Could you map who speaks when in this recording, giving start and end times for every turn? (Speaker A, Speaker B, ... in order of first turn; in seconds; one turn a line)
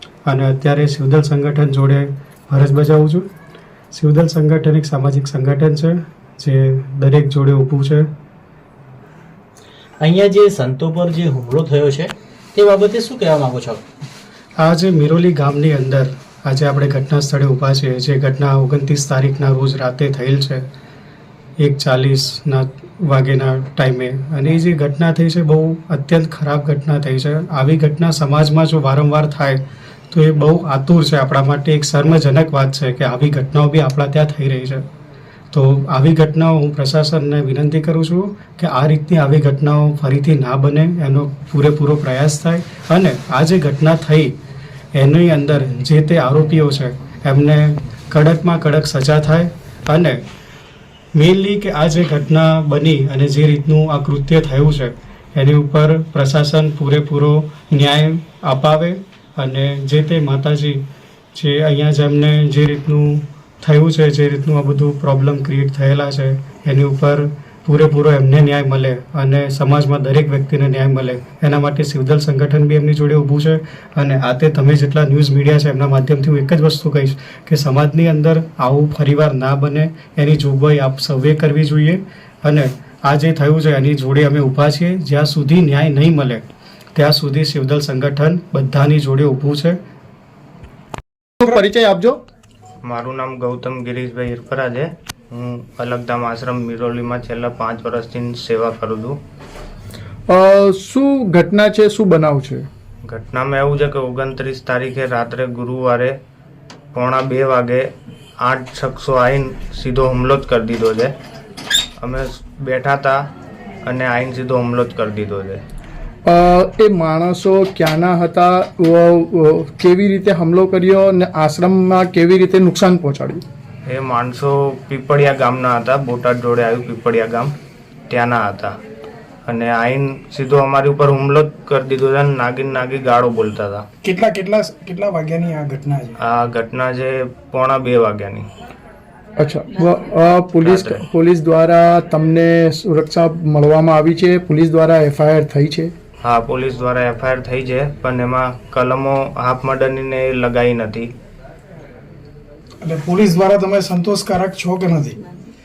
Speaker A: 0.3-3.2
Speaker A: 3.9-8.1
Speaker B: 10.0-13.8
Speaker A: 14.6-20.6
Speaker A: 21.6-29.6
Speaker A: 30.1-34.8
Speaker A: 35.5-44.3
Speaker A: 44.9-50.2
Speaker A: 51.1-60.8
Speaker A: 61.4-89.8
Speaker C: 91.4-92.2
Speaker D: 92.8-99.2
Speaker C: 100.3-102.7
Speaker D: 103.1-106.2
Speaker D: 106.9-107.9
Speaker D: 108.4-111.1
Speaker D: 112.0-113.2
Speaker D: 113.8-115.6
Speaker C: 116.2-123.4
Speaker D: 123.9-127.5
Speaker D: 128.1-128.7
Speaker D: 129.4-133.8
Speaker E: 134.0-136.1
Speaker D: 136.2-138.5
Speaker C: 139.4-145.9
Speaker D: 140.6-141.0
Speaker D: 146.2-151.1
Speaker E: 152.8-155.2